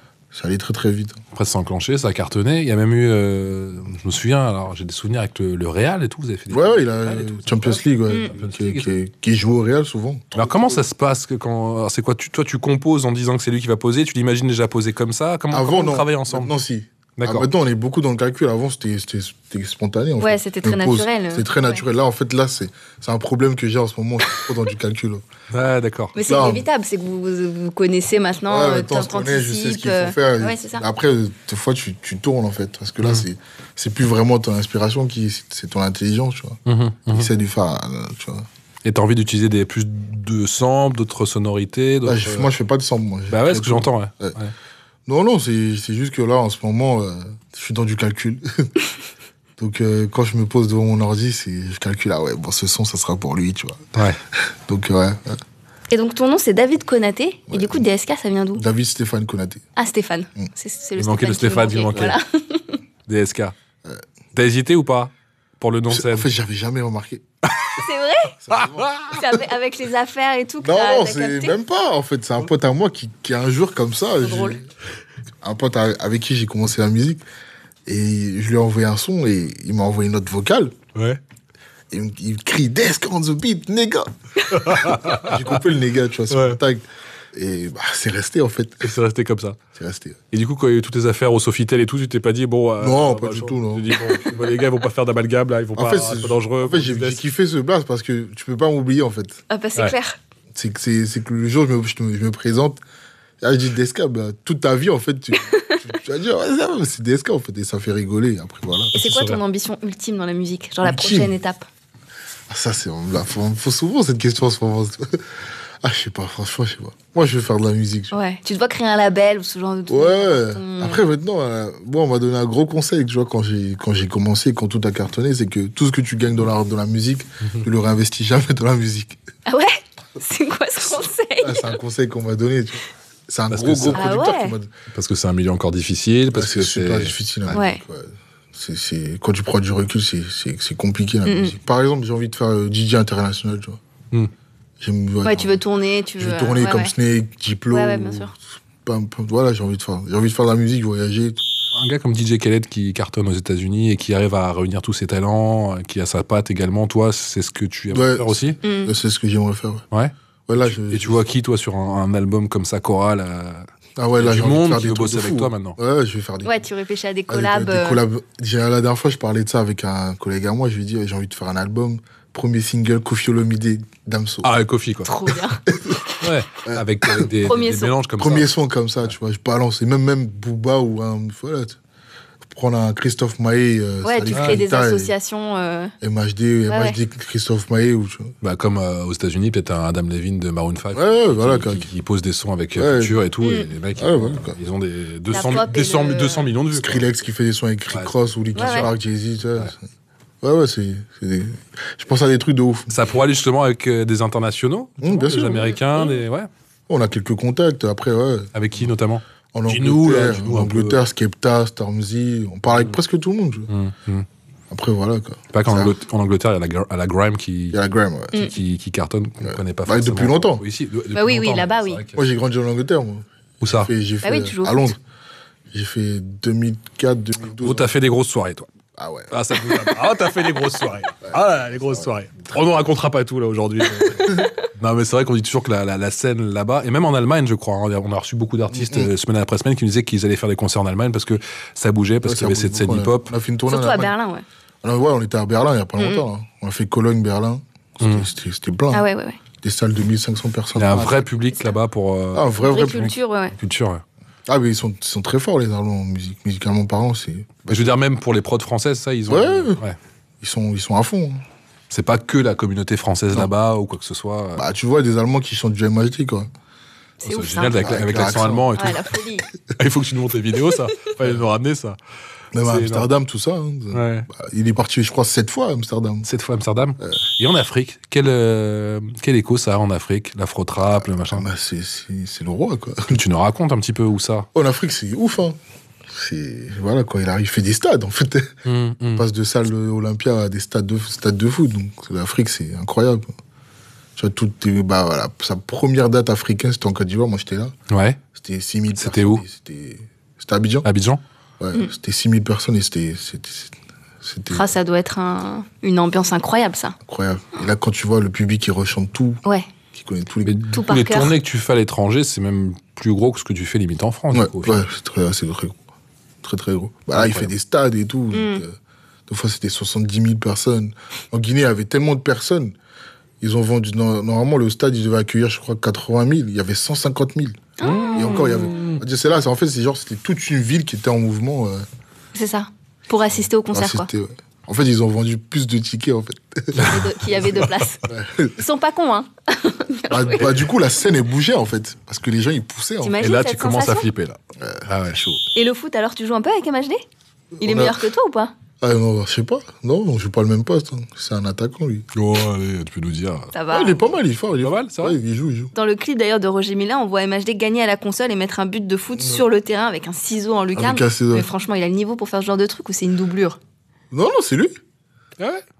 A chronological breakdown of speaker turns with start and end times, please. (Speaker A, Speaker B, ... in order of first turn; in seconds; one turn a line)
Speaker A: 0.3-1.2
Speaker B: 1.3-8.9
Speaker A: 6.5-10.8
Speaker B: 10.3-16.5
Speaker A: 15.5-25.2
Speaker B: 17.2-17.5
Speaker C: 20.2-21.8
Speaker B: 25.5-26.1
Speaker C: 26.1-30.8
Speaker A: 26.2-26.6
Speaker A: 28.5-38.5
Speaker B: 36.6-37.3
Speaker B: 38.8-42.5
Speaker A: 42.0-44.3
Speaker B: 43.3-44.5
Speaker A: 45.1-48.7
Speaker A: 49.6-54.0
Speaker A: 54.6-55.4
Speaker C: 55.9-58.6
Speaker A: 57.5-57.8
Speaker A: 58.5-59.6
Speaker C: 59.8-62.8
Speaker B: 61.0-62.2
Speaker B: 63.1-63.5
Speaker B: 64.3-66.3
Speaker A: 65.9-67.2
Speaker C: 67.8-68.3
Speaker A: 68.4-69.0
Speaker B: 68.5-69.2
Speaker C: 69.1-71.5
Speaker A: 70.6-74.7
Speaker C: 74.2-74.6
Speaker A: 75.4-77.2
Speaker A: 77.8-80.8
Speaker B: 80.9-81.2
Speaker A: 81.9-84.1
Speaker B: 84.5-85.5
Speaker A: 84.7-88.9
Speaker B: 86.3-86.6
Speaker B: 88.8-89.6
Speaker A: 89.7-90.2
Speaker B: 90.3-97.2
Speaker A: 92.8-94.0
Speaker A: 95.8-99.4
Speaker C: 99.5-100.2
Speaker A: 100.5-102.8
Speaker A: 103.4-109.0
Speaker C: 105.4-105.8
Speaker C: 108.9-111.7
Speaker B: 109.0-109.4
Speaker A: 110.8-111.3
Speaker A: 112.5-115.3
Speaker A: 115.8-118.1
Speaker C: 118.1-121.0
Speaker A: 119.9-129.2
Speaker C: 129.4-131.8
Speaker A: 131.4-134.7
Speaker B: 133.5-134.1
Speaker C: 133.9-134.5
Speaker B: 134.9-137.6
Speaker A: 136.3-143.8
Speaker C: 137.5-137.8
Speaker C: 141.2-141.5
Speaker A: 144.8-145.6
Speaker C: 145.2-146.9
Speaker A: 146.2-151.4
Speaker C: 147.7-148.3
Speaker B: 151.7-158.6
Speaker A: 157.9-159.8
Speaker C: 158.6-158.9
Speaker B: 159.9-163.7
Speaker A: 160.5-161.2
Speaker A: 164.0-166.5
Speaker B: 164.2-165.8
Speaker C: 166.4-168.0
Speaker A: 167.3-174.5
Speaker B: 174.4-175.3
Speaker C: 175.0-175.6
Speaker A: 175.7-176.0
Speaker B: 176.2-178.5
Speaker A: 176.6-177.3
Speaker C: 177.4-177.9
Speaker A: 178.2-181.8
Speaker A: 182.5-185.1
Speaker C: 184.0-185.9
Speaker A: 186.0-188.3
Speaker C: 186.7-187.0
Speaker B: 188.4-197.0
Speaker A: 190.9-191.9
Speaker A: 192.8-193.2
Speaker A: 193.9-194.6
Speaker C: 195.3-196.5
Speaker A: 196.7-199.8
Speaker B: 197.9-198.9
Speaker C: 198.5-198.9
Speaker A: 200.4-202.9
Speaker B: 202.9-206.5
Speaker A: 205.0-205.8
Speaker A: 206.9-208.8
Speaker B: 208.5-211.0
Speaker A: 209.5-213.7
Speaker B: 213.7-214.2
Speaker A: 214.7-215.9
Speaker B: 215.5-217.8
Speaker A: 217.7-218.5
Speaker B: 218.3-222.2
Speaker A: 219.4-220.6
Speaker C: 221.1-222.0
Speaker A: 222.1-225.0
Speaker B: 223.6-223.9
Speaker C: 224.2-224.9
Speaker A: 225.7-227.9
Speaker B: 227.6-228.7
Speaker A: 228.9-229.9
Speaker B: 229.3-243.3
Speaker A: 231.2-232.1
Speaker A: 234.2-234.4
Speaker A: 238.7-239.1
Speaker A: 242.2-244.1
Speaker C: 243.7-244.4
Speaker A: 244.8-249.1
Speaker C: 246.0-246.2
Speaker B: 248.0-248.3
Speaker C: 248.9-249.4
Speaker A: 249.6-251.3
Speaker B: 250.8-252.5
Speaker A: 252.3-253.1
Speaker C: 252.6-253.5
Speaker B: 253.5-254.0
Speaker A: 254.5-257.9
Speaker B: 257.7-259.9
Speaker A: 259.3-259.8
Speaker A: 260.4-261.4
Speaker B: 261.9-264.6
Speaker A: 264.6-266.5
Speaker C: 267.2-267.8
Speaker B: 267.2-269.0
Speaker A: 267.8-268.9
Speaker C: 268.8-269.4
Speaker B: 269.8-272.0
Speaker A: 272.5-276.3
Speaker B: 272.6-273.1
Speaker B: 273.9-274.3
Speaker B: 276.2-281.4
Speaker A: 281.2-283.2
Speaker B: 283.1-284.5
Speaker A: 284.5-288.6
Speaker B: 288.6-289.2
Speaker A: 289.1-293.3
Speaker A: 294.2-297.7
Speaker B: 297.9-298.2
Speaker A: 298.3-300.9
Speaker B: 299.0-299.4
Speaker B: 300.8-301.2
Speaker A: 301.6-304.7
Speaker C: 304.5-306.9
Speaker A: 307.0-309.4
Speaker A: 309.9-310.6
Speaker B: 310.4-314.9
Speaker C: 310.7-311.3
Speaker A: 314.3-315.8
Speaker A: 316.4-318.8
Speaker B: 317.1-317.5
Speaker C: 318.3-318.6
Speaker A: 319.3-322.7
Speaker A: 323.4-327.6
Speaker C: 327.8-328.7
Speaker B: 327.8-329.0
Speaker A: 328.1-331.8
Speaker C: 332.3-334.1
Speaker A: 333.7-336.9
Speaker C: 336.8-338.0
Speaker A: 338.0-338.6
Speaker C: 338.6-340.4
Speaker A: 340.1-343.2
Speaker C: 343.0-344.1
Speaker B: 343.2-345.2
Speaker A: 344.6-345.4
Speaker C: 345.5-347.0
Speaker A: 347.6-348.1
Speaker C: 347.6-348.5
Speaker A: 348.8-352.1
Speaker B: 352.1-353.5
Speaker C: 353.5-354.0
Speaker A: 353.7-355.7
Speaker B: 354.6-355.2
Speaker C: 355.7-363.6
Speaker A: 360.7-361.5
Speaker A: 364.1-364.8